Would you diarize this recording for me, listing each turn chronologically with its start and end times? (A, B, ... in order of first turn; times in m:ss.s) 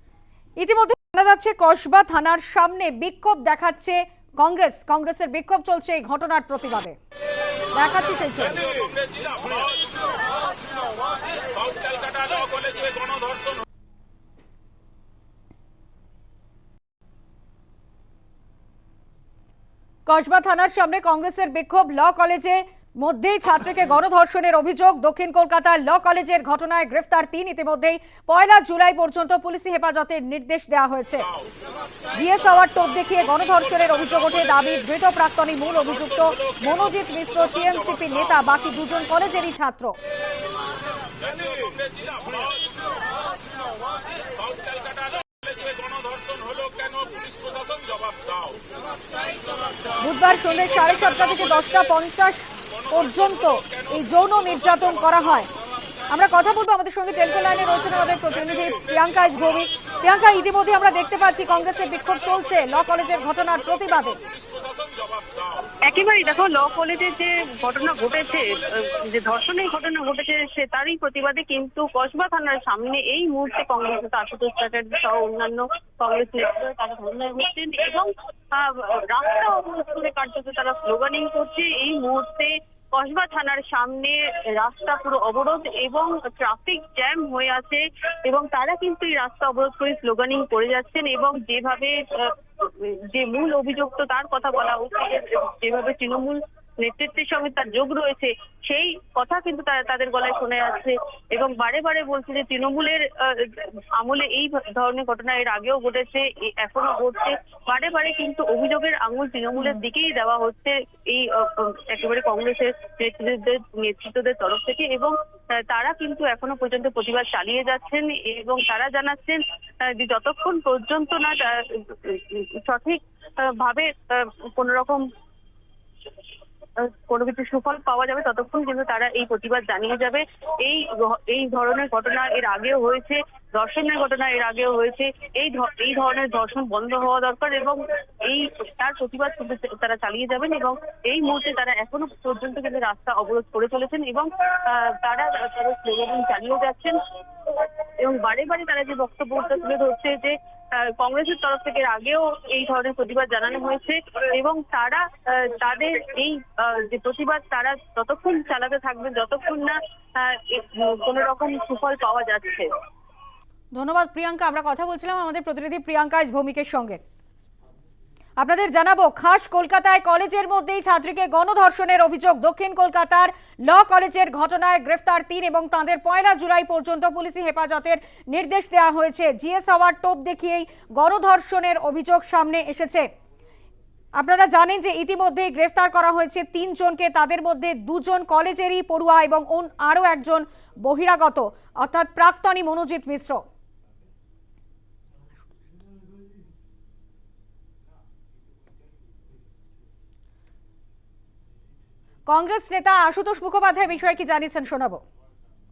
0:00.6-0:07.0 A
0:07.7-0:08.6 A
0:08.6-0:09.9 B
0:11.5-0:13.6 B
0:20.0-0:31.3 A
0:32.1-0:40.0 A
0:36.2-0:36.6 B
0:37.4-0:38.0 B
0:41.2-0:42.9 B
0:44.3-0:48.7 B
0:50.0-0:55.5 A
0:56.1-1:04.2 A
1:04.5-1:05.7 B
1:05.9-2:05.0 C
2:06.8-2:42.7 C
2:43.7-2:47.0 A
2:48.4-3:03.1 A
3:04.2-3:13.4 A
3:22.3-3:25.0 A